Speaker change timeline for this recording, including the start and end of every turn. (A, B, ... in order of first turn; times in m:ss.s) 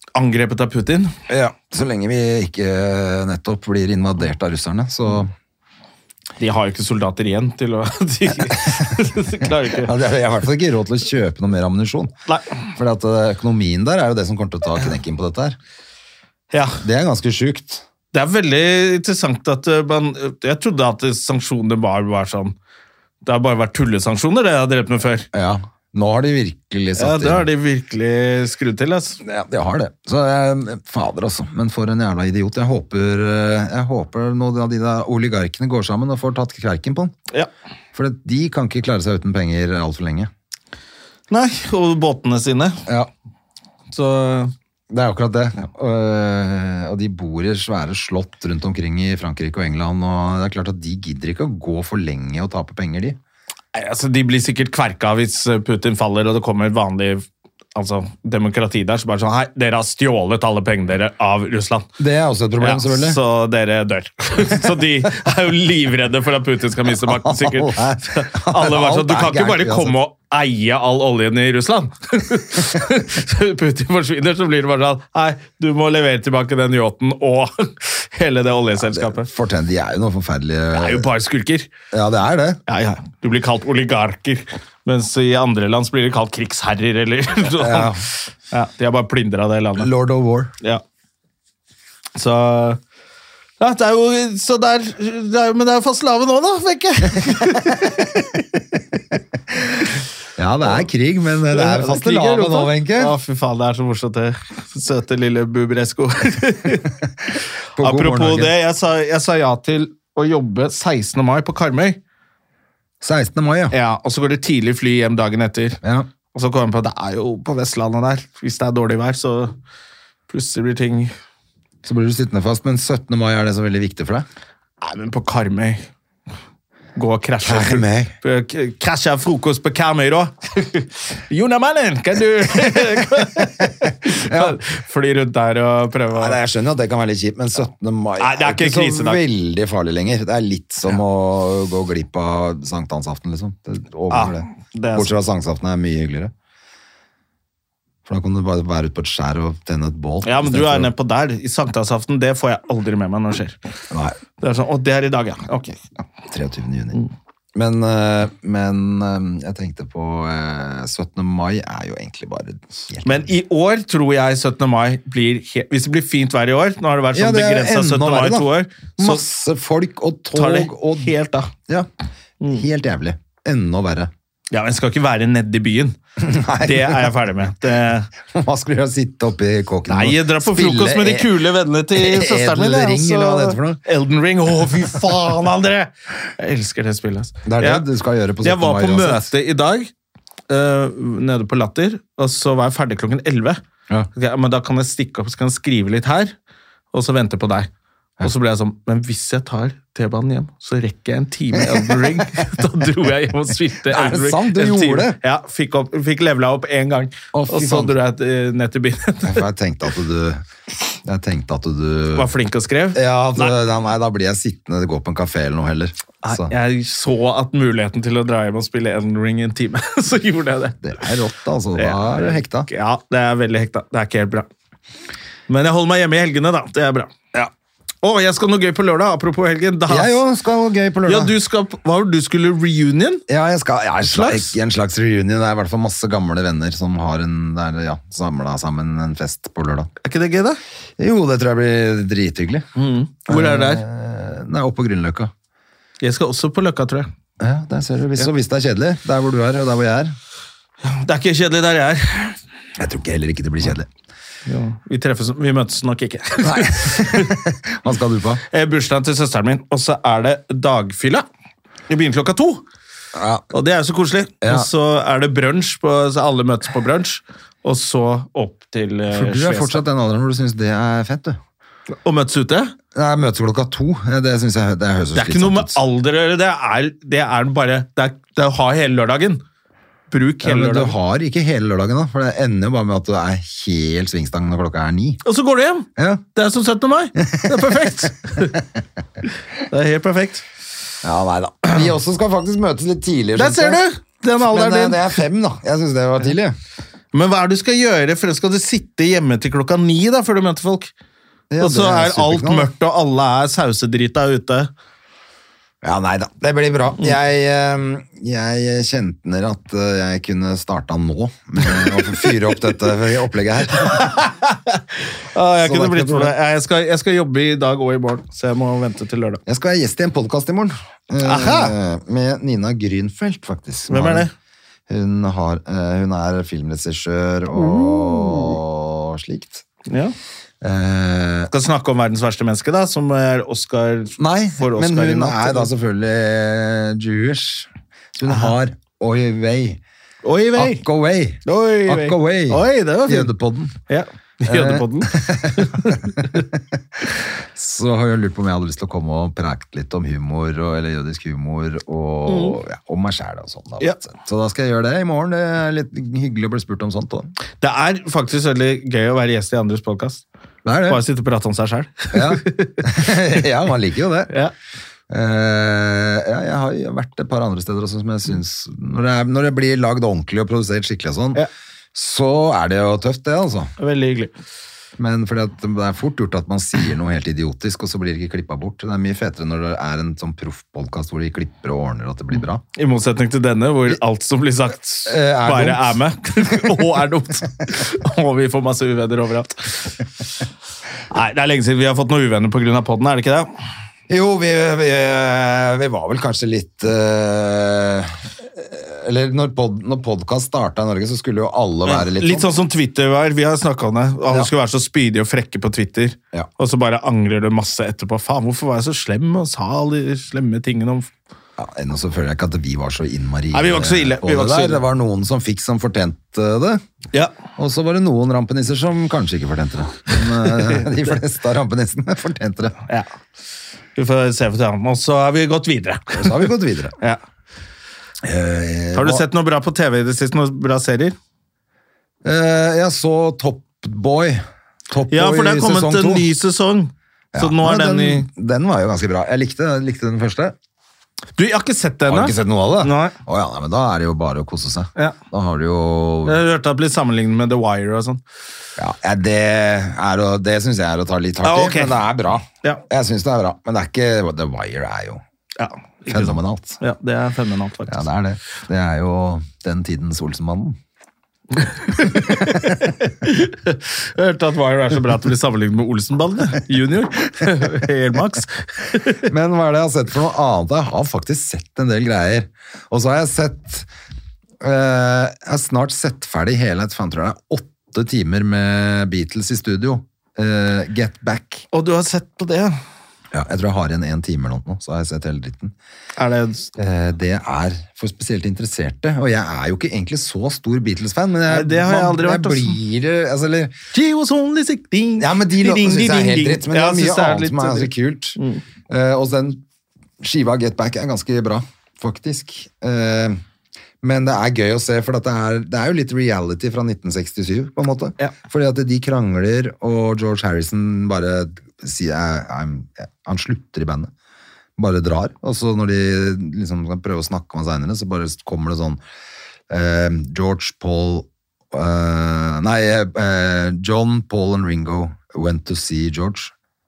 0:00.1-0:01.1 A
0:01.3-0:05.3 B
0:06.4-0:09.9 A
0:09.7-0:12.1 B
0:12.7-0:15.6 B
0:16.5-0:16.8 A
0:16.8-0:17.8 B
0:18.1-0:22.5 A
0:23.2-0:25.3 A
0:25.3-0:27.4 B
0:27.0-0:29.2 A
0:29.2-0:37.2 B
0:37.9-0:40.3 B
0:41.3-0:42.8 A
0:43.9-0:44.5 A
0:44.9-0:53.2 B
0:53.7-1:01.9 A
1:02.0-1:03.2 B
1:02.6-1:19.3 A
1:07.0-1:10.0 B
1:18.8-1:21.0 B
1:20.7-1:21.7 A
1:21.9-1:22.6 B
1:22.7-1:29.9 A
1:27.6-1:28.0 B
1:29.8-1:30.5 B
1:32.1-1:32.8 A
1:33.6-1:38.2 A
1:37.2-1:38.0 B
1:40.4-1:43.1 B
1:41.5-1:46.9 A
1:47.8-1:48.5 B
1:47.8-1:52.0 A
1:53.0-1:53.7 B
1:53.7-1:55.8 A
1:55.8-1:56.1 B
1:56.3-1:59.5 A
2:00.3-2:01.1 A
2:01.8-2:04.2 B
2:04.8-2:05.9 A
2:07.0-2:16.4 A
2:07.4-2:08.1 B
2:13.6-2:14.6 B
2:16.1-2:26.3 B
2:18.2-2:19.2 A
2:24.1-2:25.1 A
2:28.0-2:30.9 B
2:30.2-2:33.6 A
2:33.9-2:34.2 B
2:34.4-2:35.8 A
2:36.3-2:37.0 B
2:37.5-2:43.3 B
2:43.0-2:49.2 A
2:47.1-2:51.1 B
2:50.3-2:51.5 A
2:52.5-2:54.1 B
2:54.5-2:56.0 A
2:56.2-2:57.1 B
2:56.6-2:58.1 A
2:58.2-3:01.4 B
2:59.9-3:07.8 A
3:01.9-3:03.8 B
3:07.4-3:09.3 B
3:08.4-3:09.9 A
3:10.5-3:13.6 A
3:14.1-3:16.3 A
3:16.9-3:17.7 A
3:18.2-3:29.4 A
3:21.5-3:22.4 B
3:23.8-3:25.2 B
3:27.3-3:27.9 B
3:29.2-3:30.4 B
3:31.0-3:32.3 B
3:32.1-3:33.6 A
3:32.9-3:36.5 B
3:36.2-3:40.8 A
3:40.8-3:42.7 B
3:41.8-3:44.5 A
3:45.5-3:47.2 A
3:48.0-3:50.2 A
3:49.9-3:51.3 B
3:51.0-3:53.2 A
3:53.3-3:59.9 B
3:54.0-3:54.5 A
4:00.0-4:00.6 A
4:01.0-4:02.6 B
4:02.8-4:03.8 A
4:03.3-4:05.3 B
4:06.0-4:07.1 A
4:07.4-4:10.2 B
4:10.8-4:12.4 A
4:12.8-4:13.9 B
4:14.4-4:17.4 A
4:16.4-4:18.4 B
4:18.5-4:21.2 A
4:21.9-4:22.6 A
4:23.1-4:23.5 B
4:23.5-4:29.8 A
4:24.4-4:24.7 B
4:29.1-4:31.4 B
4:32.0-4:32.7 A
4:32.9-4:35.8 B
4:35.1-4:39.4 A
4:40.1-4:41.0 A
4:40.4-4:45.2 B
4:45.2-4:48.6 A
4:46.0-4:46.2 B
4:47.2-4:48.6 B
4:49.7-4:50.4 A
4:51.0-4:53.8 B
4:53.4-4:55.2 A
4:54.4-4:56.5 B
4:57.1-5:00.9 A
5:01.5-5:02.7 B
5:01.6-5:04.7 A
5:05.8-5:14.2 B
5:11.8-5:12.2 A
5:13.9-5:19.4 A
5:15.6-5:16.3 B
5:19.4-5:24.3 B
5:21.2-5:21.7 A
5:23.9-5:24.3 A
5:24.9-5:29.6 B
5:27.5-5:28.6 A
5:29.9-5:30.1 A
5:30.6-5:31.5 B
5:31.5-5:35.7 A
5:34.2-5:39.8 B
5:40.2-5:40.8 A
5:40.6-5:43.8 B
5:41.4-5:43.3 A
5:43.9-5:46.4 A
5:44.4-5:57.3 B
5:52.3-5:52.6 A
5:57.6-6:00.2 A
6:00.6-6:01.0 B
6:00.9-6:03.1 A
6:02.1-6:04.3 B
6:05.1-6:11.4 B
6:11.9-6:13.7 B
6:13.8-6:14.3 A
6:15.0-6:22.6 B
6:22.7-6:29.9 A
6:25.0-6:26.8 B
6:31.1-6:33.5 A
6:34.1-6:42.5 B
6:41.8-6:51.1 A
6:51.6-6:56.8 B
6:53.5-6:54.8 A
6:57.6-7:02.8 B
7:04.0-7:07.2 A
7:06.1-7:07.0 B
7:08.2-7:09.2 B
7:08.9-7:11.1 A
7:12.2-7:16.3 B
7:15.1-7:18.3 A
7:17.3-7:20.5 B
7:21.4-7:23.2 A
7:22.1-7:26.4 B
7:26.2-7:28.2 A
7:28.8-7:35.2 B
7:31.4-7:32.0 A
7:35.6-7:38.0 A
7:36.1-7:36.8 B
7:37.9-7:40.8 B
7:41.6-7:49.2 A
7:42.0-7:42.8 B
7:49.2-7:53.9 B
7:54.6-8:01.6 B
8:01.7-8:02.8 A
8:03.3-8:05.7 B
8:06.2-8:06.7 A
8:06.8-8:13.8 B
8:11.5-8:12.8 A
8:13.9-8:18.6 A
8:15.2-8:19.6 B
8:20.2-8:23.4 B
8:24.0-8:34.1 B
8:34.8-8:39.0 B
8:39.7-8:46.5 B